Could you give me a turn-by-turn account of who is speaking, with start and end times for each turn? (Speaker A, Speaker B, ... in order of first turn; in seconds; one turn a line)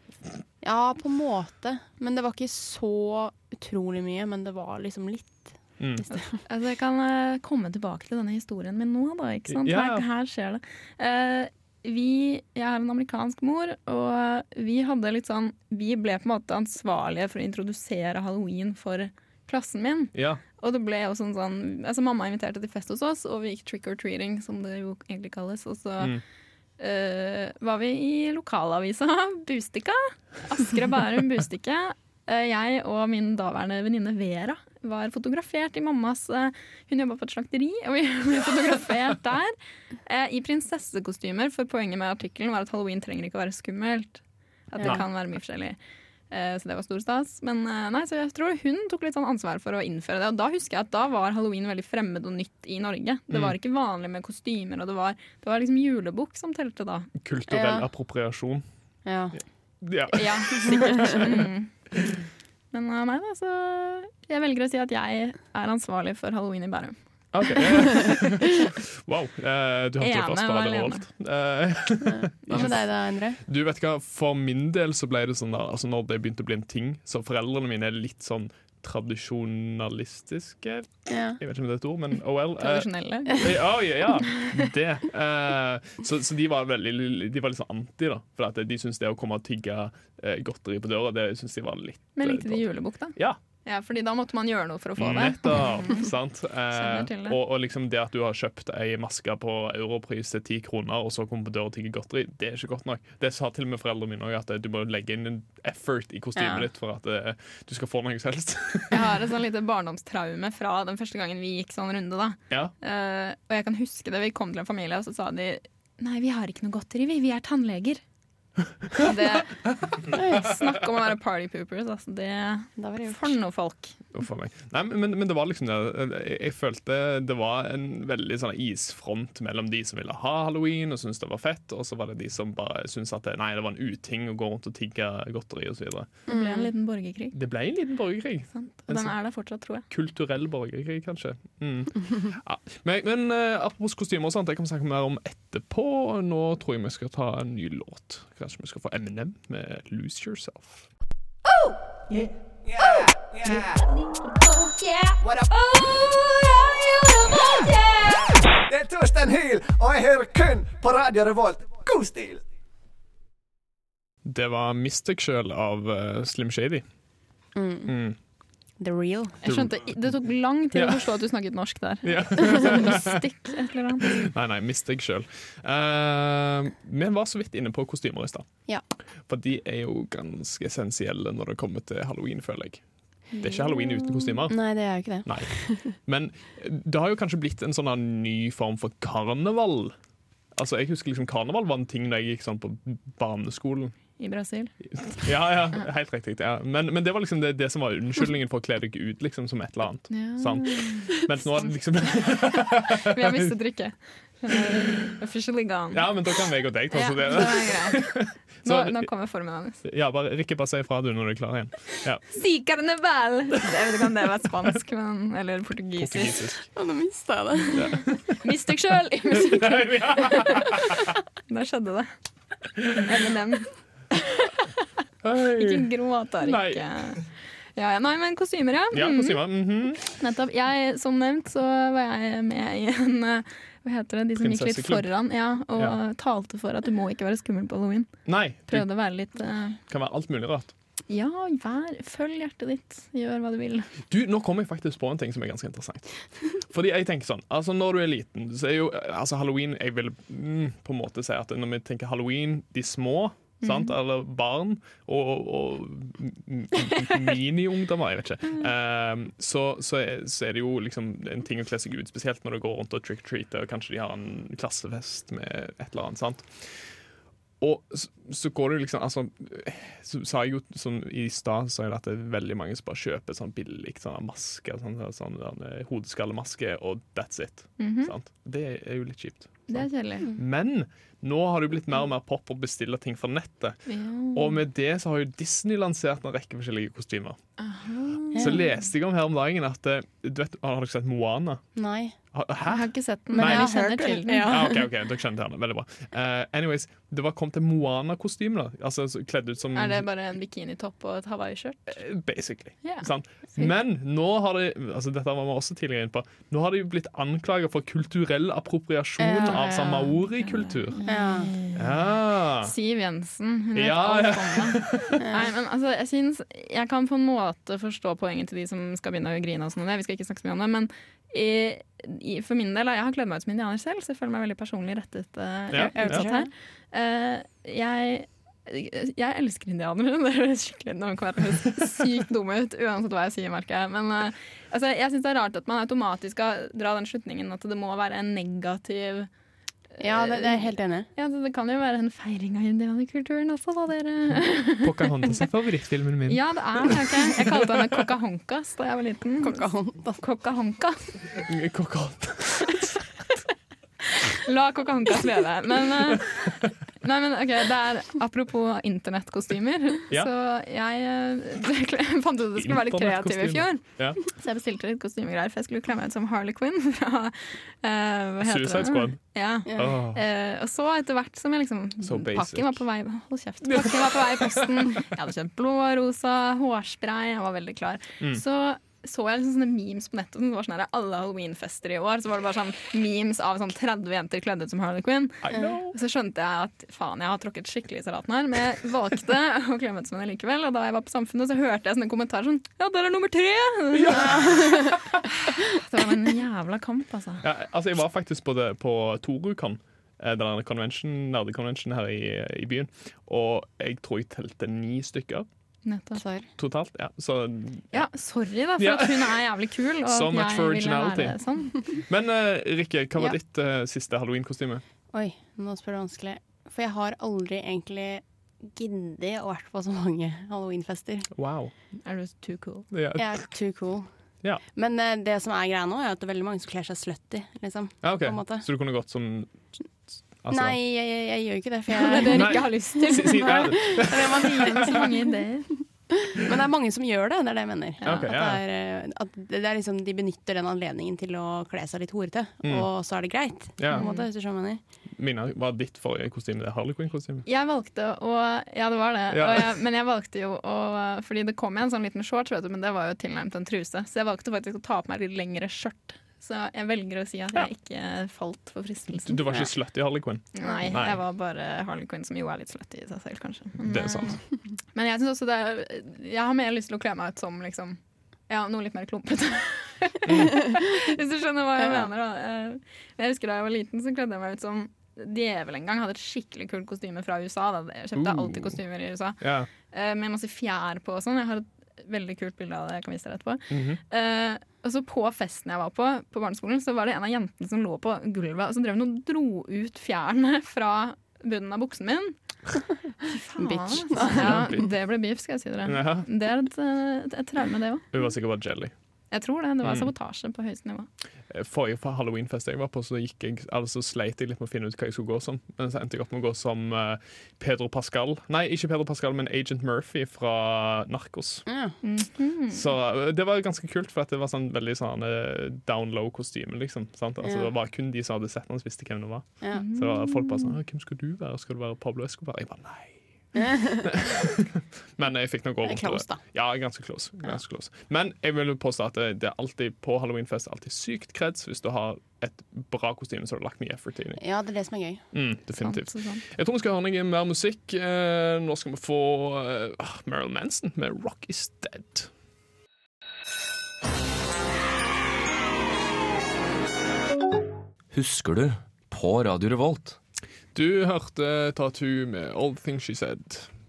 Speaker A: 0.6-6.4
Speaker B: 5.8-6.0
Speaker C: 6.1-26.2
Speaker B: 9.5-10.0
Speaker B: 20.1-20.4
Speaker C: 26.8-45.8
Speaker C: 46.3-57.1
Speaker B: 57.2-58.6
Speaker A: 57.5-57.9
Speaker A: 59.0-59.4
Speaker B: 59.8-61.5
Speaker C: 60.1-61.7
Speaker A: 60.7-61.0
Speaker C: 62.7-67.0
Speaker B: 67.3-72.9
Speaker C: 70.0-71.0
Speaker A: 72.0-73.4
Speaker B: 73.4-80.9
Speaker A: 81.1-81.4
Speaker B: 81.4-92.6
Speaker C: 82.6-83.6
Speaker C: 92.2-96.1
Speaker B: 95.0-109.1
Speaker C: 96.7-97.4
Speaker A: 106.3-106.7
Speaker C: 108.9-118.0
Speaker C: 118.9-124.0
Speaker A: 120.1-120.5
Speaker A: 122.8-123.4
Speaker B: 124.1-136.1
Speaker C: 136.3-137.3
Speaker A: 136.3-136.7
Speaker B: 137.3-139.1
Speaker C: 138.6-139.8
Speaker B: 139.9-150.8
Speaker D: 152.7-153.8
Speaker C: 154.5-155.1
Speaker D: 155.2-156.1
Speaker D: 157.3-157.7
Speaker D: 158.7-162.4
Speaker B: 164.2-166.8
Speaker A: 167.5-167.9
Speaker B: 167.9-168.2
Speaker A: 168.8-169.4
Speaker C: 169.4-174.1
Speaker B: 169.4-169.8
Speaker B: 170.7-171.1
Speaker B: 172.0-173.2
Speaker B: 174.1-178.5
Speaker B: 179.3-182.8
Speaker C: 183.3-184.4
Speaker B: 183.4-184.6
Speaker A: 184.5-185.9
Speaker B: 185.2-189.9
Speaker B: 190.5-193.9
Speaker C: 194.2-194.7
Speaker B: 194.9-203.5
Speaker C: 200.1-206.1
Speaker B: 205.9-209.1
Speaker C: 206.9-209.8
Speaker B: 209.8-212.2
Speaker C: 212.3-216.3
Speaker B: 216.0-216.6
Speaker A: 216.7-217.9
Speaker B: 217.7-218.4
Speaker C: 218.4-222.1
Speaker B: 219.3-221.1
Speaker C: 222.9-224.8
Speaker B: 225.2-225.9
Speaker C: 225.5-227.2
Speaker B: 226.4-227.2
Speaker C: 227.8-229.4
Speaker B: 228.9-230.1
Speaker C: 230.1-238.1
Speaker B: 234.4-235.1
Speaker B: 238.2-238.9
Speaker C: 238.7-239.8
Speaker B: 239.9-240.7
Speaker C: 241.1-243.9
Speaker B: 244.1-266.4
Speaker C: 253.6-253.9
Speaker C: 256.8-257.1
Speaker B: 267.6-283.8
Speaker C: 277.8-278.1
Speaker C: 279.7-280.3
Speaker C: 283.9-284.6
Speaker B: 284.3-287.4
Speaker C: 287.6-288.7
Speaker A: 288.3-288.6
Speaker B: 288.4-291.6
Speaker A: 291.8-292.1
Speaker B: 292.3-293.7
Speaker C: 292.7-294.5
Speaker A: 293.3-294.9
Speaker B: 294.4-300.1
Speaker C: 299.7-302.0
Speaker B: 301.9-311.0
Speaker C: 302.8-303.7
Speaker A: 309.2-309.6
Speaker C: 309.3-312.0
Speaker A: 311.1-311.5
Speaker B: 311.7-312.7
Speaker C: 312.6-339.3
Speaker B: 313.7-315.2
Speaker A: 315.2-315.5
Speaker B: 325.7-326.3
Speaker A: 325.8-326.5
Speaker C: 339.9-344.9
Speaker A: 340.0-341.1
Speaker B: 344.8-347.4
Speaker C: 346.3-349.7
Speaker A: 349.4-350.2
Speaker C: 350.2-351.2
Speaker B: 351.4-353.0
Speaker C: 354.0-397.4
Speaker B: 362.6-364.2
Speaker B: 368.4-369.2
Speaker A: 369.7-370.0
Speaker B: 369.7-370.2
Speaker B: 372.0-372.8
Speaker B: 373.6-374.9
Speaker B: 385.4-385.9
Speaker B: 393.9-395.1
Speaker A: 394.5-394.9
Speaker B: 397.4-405.5
Speaker C: 405.8-406.2
Speaker A: 406.1-406.5
Speaker B: 406.6-408.1
Speaker C: 407.9-411.8
Speaker B: 408.8-409.4
Speaker B: 410.1-414.8
Speaker A: 415.1-421.3
Speaker B: 421.4-421.7
Speaker C: 422.0-422.9
Speaker B: 422.9-423.4
Speaker A: 423.1-424.1
Speaker A: 424.7-428.6
Speaker B: 428.0-429.6
Speaker B: 430.4-430.8
Speaker A: 430.5-435.1
Speaker C: 431.9-435.7
Speaker B: 432.2-435.1
Speaker A: 436.1-444.8
Speaker C: 438.0-438.3
Speaker B: 438.0-438.6
Speaker B: 442.6-442.9
Speaker B: 443.8-444.1
Speaker C: 443.9-444.2
Speaker B: 445.2-447.4
Speaker C: 447.4-459.7
Speaker B: 449.3-449.7
Speaker B: 459.2-461.2
Speaker C: 460.5-464.4
Speaker B: 463.8-464.4
Speaker C: 464.9-468.0
Speaker C: 468.5-492.4
Speaker B: 470.2-470.6
Speaker B: 478.1-478.8
Speaker B: 479.4-479.7
Speaker B: 483.7-484.0
Speaker C: 493.2-498.1
Speaker A: 493.6-494.7
Speaker B: 494.3-494.9
Speaker B: 495.9-496.3
Speaker B: 498.1-498.9
Speaker C: 499.3-501.1
Speaker B: 499.8-500.1
Speaker B: 501.5-511.6
Speaker A: 511.7-511.9
Speaker C: 512.0-512.9
Speaker B: 512.7-534.4
Speaker A: 517.4-517.7
Speaker C: 519.7-520.8
Speaker A: 523.5-524.1
Speaker A: 525.8-526.4
Speaker A: 534.4-535.2
Speaker B: 535.3-542.3
Speaker C: 535.8-536.4
Speaker E: 548.1-550.1
Speaker B: 550.7-553.7